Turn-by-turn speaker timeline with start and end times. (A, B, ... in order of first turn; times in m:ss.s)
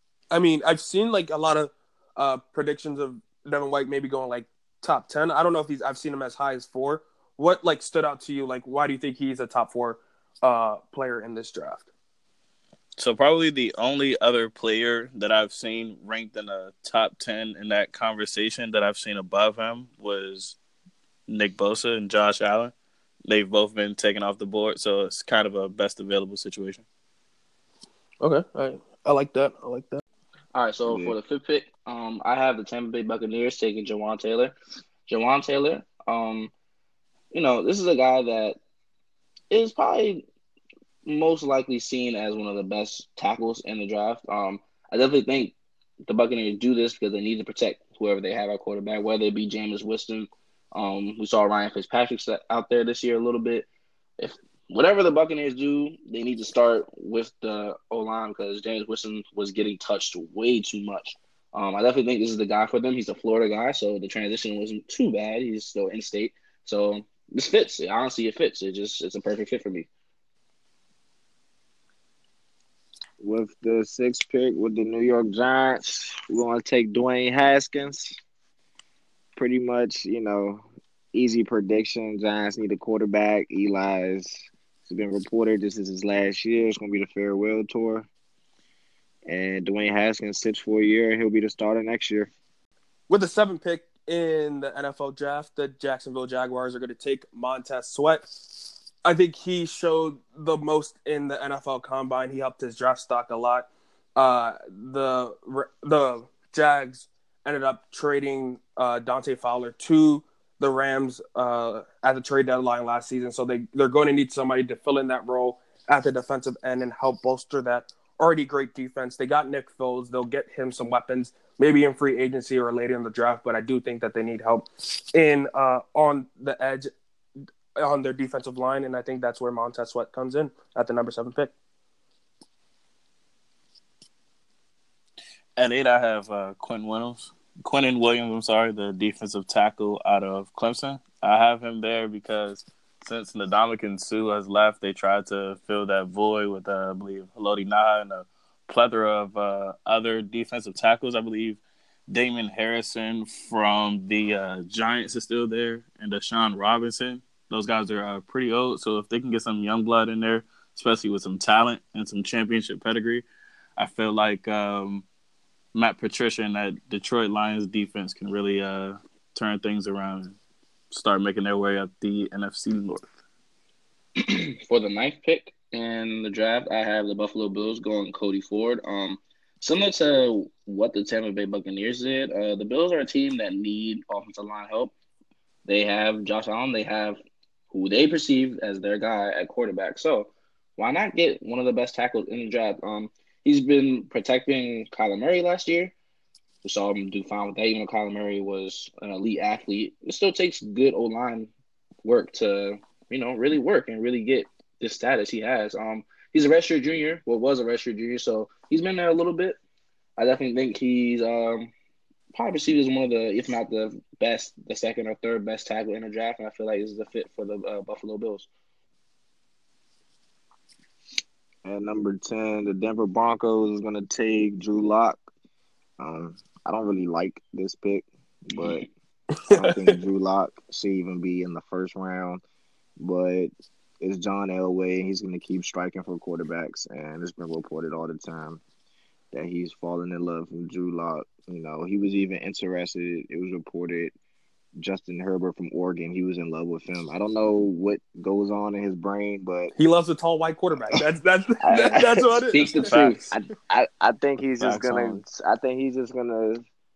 0:00.3-0:11.9 A
0:13.0-0:20.6 B
0:21.3-0:22.7 B
0:23.3-0:26.8 B
0:28.2-0:30.0 A
0:30.5-0:34.5 C
0:30.9-0:31.2 D
0:35.1-0:36.5 C
0:37.3-0:38.6 C
0:39.5-0:40.2 C
0:41.0-0:45.6 C
0:46.1-0:53.7 C
0:54.2-1:09.9 C
1:13.2-1:18.2 D
1:19.4-1:28.1 D
1:29.3-1:32.3 D
1:33.1-2:06.9 A
2:07.8-2:11.5 A
2:15.6-2:43.2 B
2:43.8-2:45.1 B
2:45.7-2:50.4 B
2:50.9-2:53.1 B
2:54.2-3:04.9 C
3:05.7-3:07.2 C
3:07.7-3:15.9 C
3:16.6-3:21.5 C
3:22.0-3:29.6 C
3:30.2-3:31.7 C
3:32.3-3:38.5 C
3:41.6-3:45.2 D
3:46.0-3:48.9 D
3:48.6-3:48.8 C
3:49.4-3:49.7 A
3:49.5-3:52.4 D
3:53.0-3:58.6 D
3:59.3-4:04.1 D
4:04.8-4:09.7 D
4:09.8-4:12.7 A
4:11.6-4:12.4 D
4:12.5-4:13.2 C
4:12.6-4:13.4 B
4:13.3-4:16.6 D
4:14.6-4:15.2 B